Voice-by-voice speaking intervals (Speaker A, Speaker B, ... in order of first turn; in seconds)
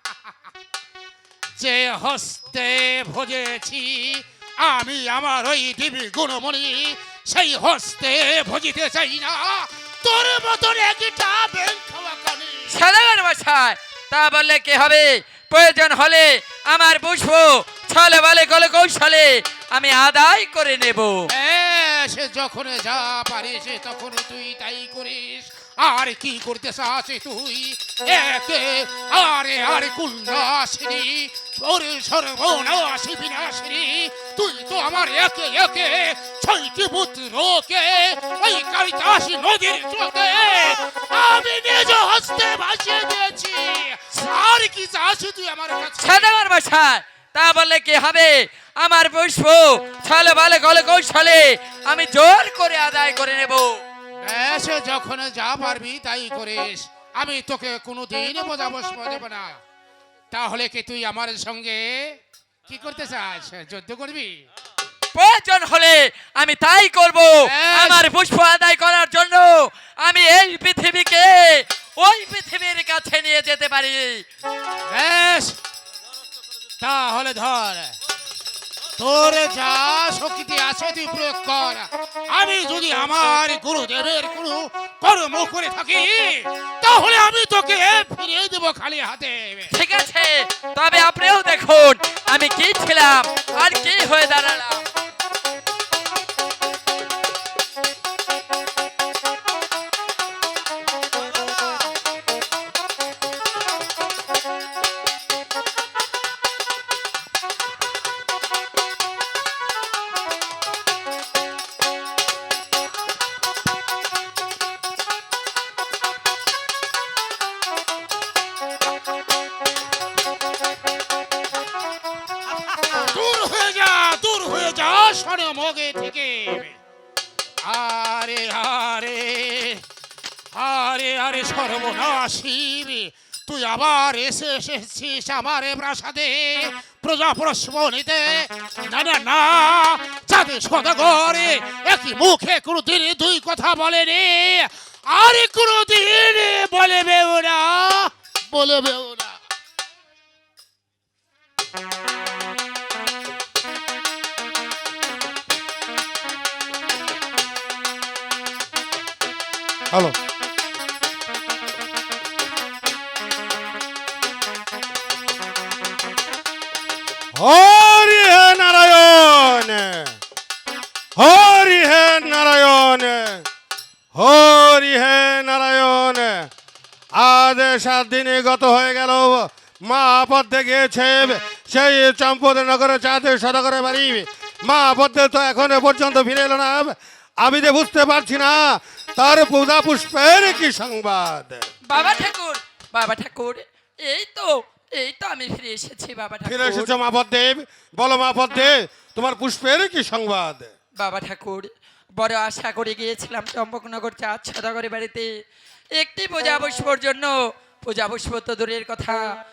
Speaker A: 1.6-12.8, 21.3-46.4, 54.2-59.6, 60.3-62.1, 62.7-64.4, 67.4-68.0, 74.9-75.6, 76.8-78.0, 79.0-89.7, 123.0-126.8, 127.6-129.8, 130.5-149.4
Speaker B: 12.7-21.3, 46.0-53.8, 65.1-74.2, 89.7-94.8, 191.9-196.9, 201.0-205.3, 206.0-207.3, 207.8-209.2
Speaker C: 167.3-170.1, 171.2-173.4, 174.1-176.5, 177.2-191.6, 196.4-200.7